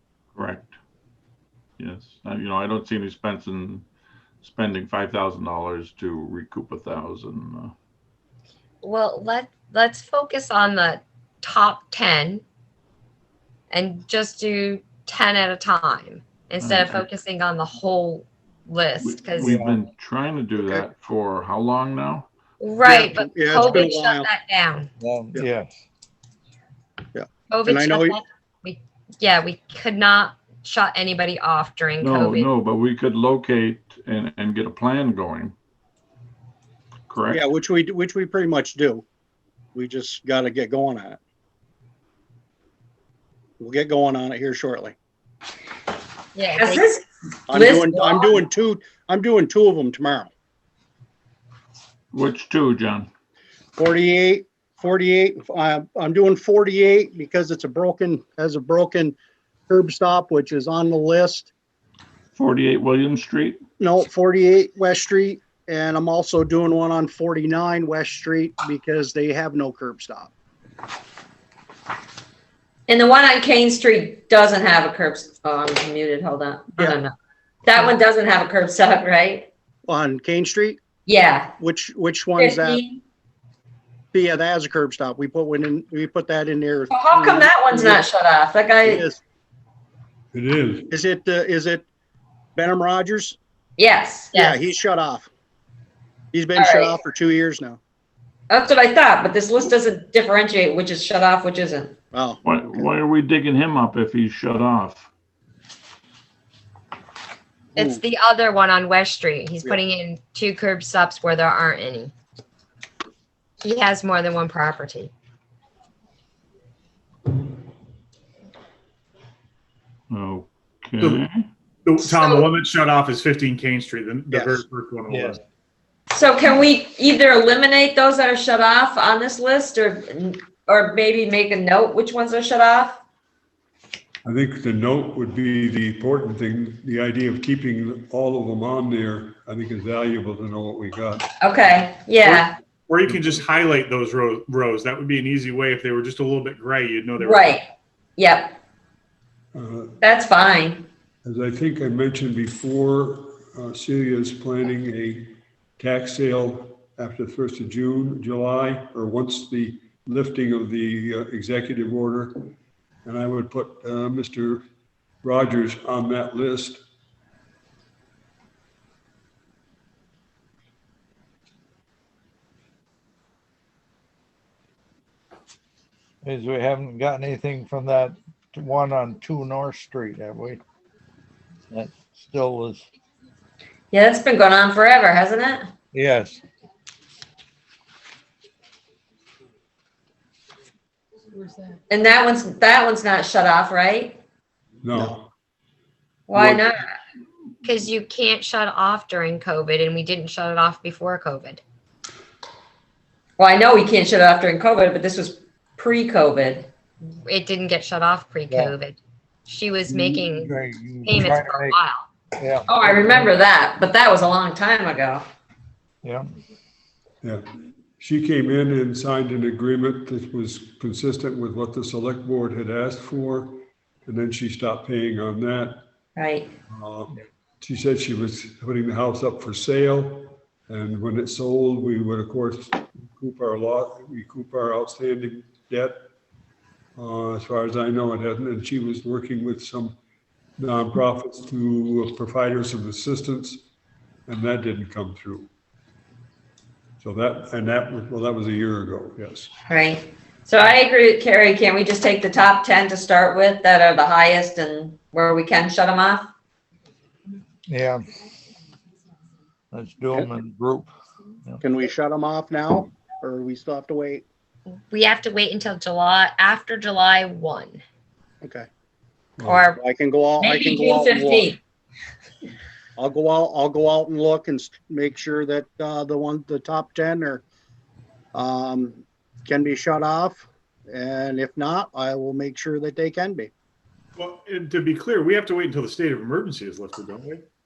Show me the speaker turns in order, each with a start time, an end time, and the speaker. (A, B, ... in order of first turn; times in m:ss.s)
0:00.4-0:00.7 A
0:01.8-0:03.8 A
0:04.4-0:07.7 A
0:08.8-0:12.4 B
0:13.7-0:19.6 B
0:16.6-0:17.0 A
0:19.0-0:22.3 A
0:19.4-0:19.8 C
0:20.6-0:20.8 D
0:22.6-0:24.9 B
0:22.8-0:24.3 D
0:25.0-0:25.8 C
0:27.1-0:28.2 D
0:27.5-0:32.5 B
0:32.0-0:35.5 A
0:37.1-0:37.4 A
0:37.3-0:39.0 D
0:39.8-0:41.2 D
0:43.6-0:45.0 D
0:46.4-0:46.8 B
0:46.6-0:48.4 E
0:47.5-0:50.3 D
0:52.1-0:53.1 A
0:53.8-0:59.2 D
0:59.7-1:01.5 D
1:02.4-1:03.6 A
1:03.8-1:10.3 D
1:12.9-1:17.1 E
1:17.7-1:19.5 E
1:19.9-1:20.8 D
1:21.1-1:21.5 E
1:21.6-1:22.8 D
1:22.4-1:23.0 E
1:24.1-1:28.0 D
1:26.9-1:29.0 E
1:28.8-1:29.2 D
1:30.3-1:30.9 F
1:30.9-1:31.8 D
1:32.6-1:33.4 D
1:33.8-1:34.4 E
1:34.3-1:34.7 B
1:34.3-1:35.3 D
1:36.3-1:37.8 D
1:36.6-1:37.0 E
1:38.5-1:42.0 E
1:42.1-1:42.9 D
1:42.4-1:45.1 A
1:47.8-1:48.0 D
1:47.8-1:52.1 B
1:53.6-1:55.1 B
2:00.1-2:01.5 A
2:01.8-2:05.4 G
2:02.0-2:02.5 B
2:04.3-2:04.6 D
2:05.1-2:05.4 C
2:06.1-2:13.0 E
2:14.2-2:21.3 F
2:21.4-2:22.5 E
2:22.9-2:27.6 G
2:27.2-2:28.6 E
2:29.5-2:30.0 F
2:30.0-2:30.8 E
2:31.2-2:42.5 F
2:43.0-2:44.6 F
2:45.2-2:46.8 F
2:56.2-3:00.6 C
3:01.7-3:02.9 C
3:03.9-3:05.7 E
3:05.9-3:06.4 C
3:11.9-3:14.2 E
3:14.8-3:15.3 F
3:16.3-3:16.9 E
3:16.3-3:16.7 F
3:17.6-3:21.6 B
3:23.4-3:26.7 E
3:27.2-3:32.1 B
3:29.9-3:31.8 C
3:32.4-3:33.3 C
3:32.7-3:35.2 E
3:38.0-3:45.8 F
3:46.2-3:46.5 E
3:46.7-3:56.0 F
3:57.0-4:00.0 F
4:00.6-4:03.6 F
4:04.3-4:05.5 F
4:07.0-4:09.5 F
4:09.7-4:16.3 E
4:17.7-4:18.0 C
4:19.7-4:20.9 C
4:21.6-4:24.2 D
4:24.9-4:27.8 B
4:28.4-4:28.7 D
4:29.4-4:29.7 F
4:29.4-4:29.8 B
4:29.8-4:31.5 D
4:30.4-4:31.6 E
4:33.0-4:37.4 D
4:38.3-4:43.5 D
4:44.2-4:47.4 G